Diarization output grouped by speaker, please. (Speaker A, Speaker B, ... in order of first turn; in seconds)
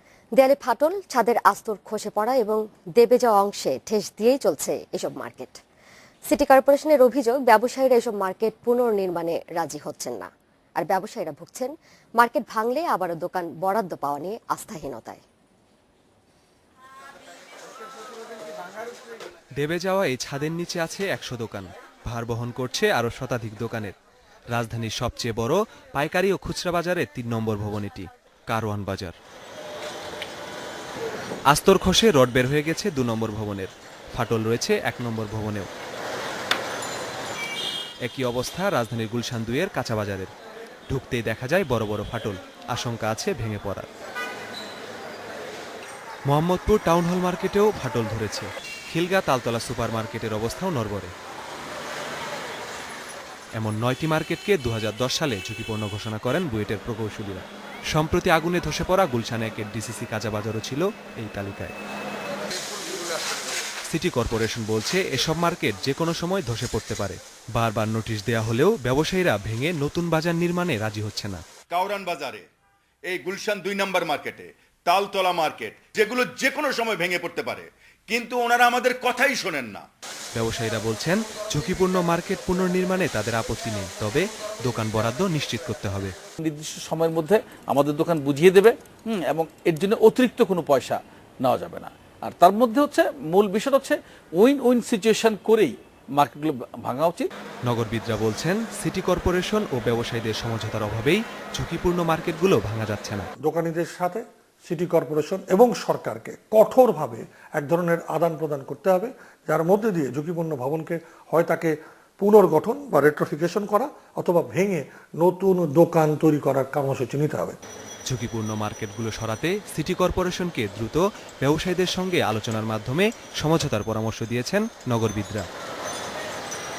Speaker A: 0.3-5.6, 6.3-15.2
Speaker B: 19.6-23.9, 24.5-29.1, 31.5-35.7, 38.0-40.3, 40.9-43.9, 46.3-51.1, 53.6-61.7, 63.9-71.4, 80.3-86.1, 97.7-103.3, 118.1-125.4
Speaker C: 71.7-72.5, 73.1-79.8
Speaker D: 86.4-97.3
Speaker E: 103.4-117.6